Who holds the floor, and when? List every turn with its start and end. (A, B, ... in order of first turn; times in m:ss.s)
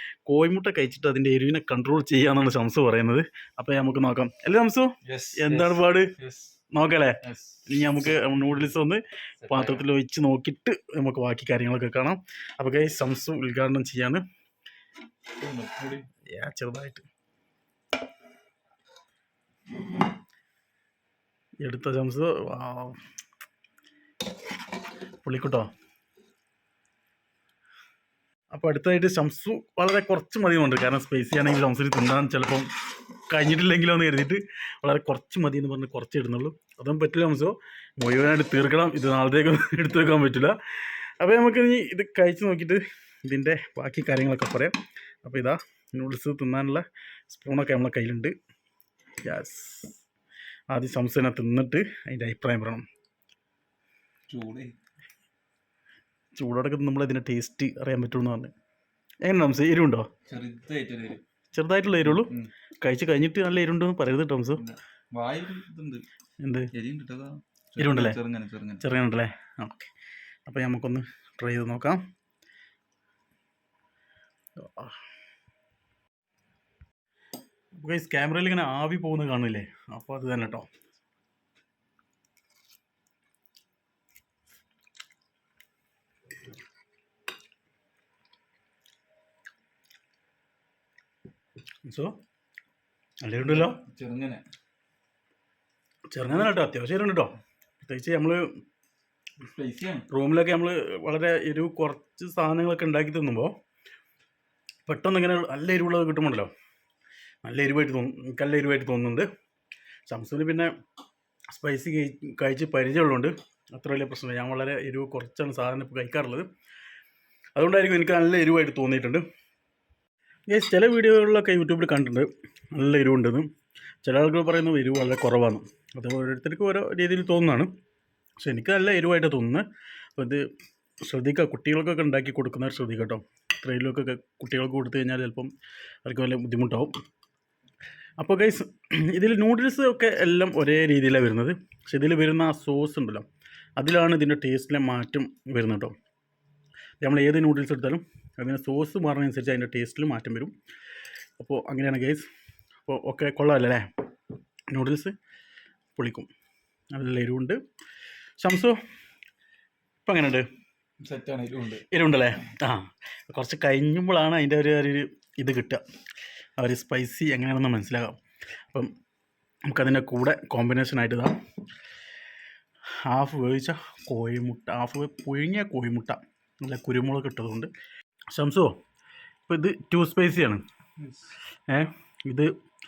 0:00.3-0:06.1 A
0:05.0-0:06.6 B
0:06.7-0:14.2 A
0:07.2-0:08.3 B
0:09.4-0:09.8 B
0:15.4-0:16.1 B
0:16.3-0:17.0 A
0:21.6-0:23.0 A
0:25.2-0:25.7 A
0:28.5-0:40.6 A
0:41.2-0:48.3 A
0:49.2-0:50.0 A
0:50.7-0:52.8 A
0:54.3-0:54.7 B
0:56.3-0:58.5 A
0:59.2-1:00.1 A
1:00.3-1:01.2 B
1:01.5-1:02.3 A
1:02.0-1:02.5 B
1:02.8-1:04.6 A
1:04.6-1:06.0 B
1:06.4-1:06.7 A
1:06.7-1:08.8 B
1:07.8-1:08.2 A
1:08.8-1:09.9 A
1:10.5-1:12.0 A
1:14.6-1:15.0 A
1:17.8-1:20.7 A
1:31.8-1:32.1 A
1:33.2-1:33.8 A
1:33.4-1:34.4 B
1:36.1-1:38.5 A
1:39.4-1:40.1 B
1:40.1-1:43.5 A
1:44.8-1:46.5 A
1:47.4-1:49.3 A
1:50.1-1:50.7 A
1:51.5-1:56.5 A
1:57.6-1:59.2 A
2:00.5-2:03.5 A
2:04.0-2:07.7 A
2:08.4-2:09.6 A
2:10.2-2:10.4 A
2:11.0-2:15.5 A
2:16.0-2:16.9 A
2:18.2-2:23.2 A
2:23.8-2:25.9 A
2:27.0-2:30.5 A
2:31.4-2:32.3 A
2:32.8-2:33.8 A
2:34.7-2:35.1 A
2:36.0-2:36.3 A
2:36.9-2:37.6 A
2:38.4-2:38.8 A
2:40.0-2:40.4 A
2:41.0-2:41.8 B
2:41.9-2:45.8 A
2:46.6-2:48.2 A
2:49.7-2:51.4 A
2:53.1-2:57.7 A
2:58.3-2:58.7 A
2:59.5-3:00.6 A
3:01.0-3:01.4 B
3:01.7-3:02.5 A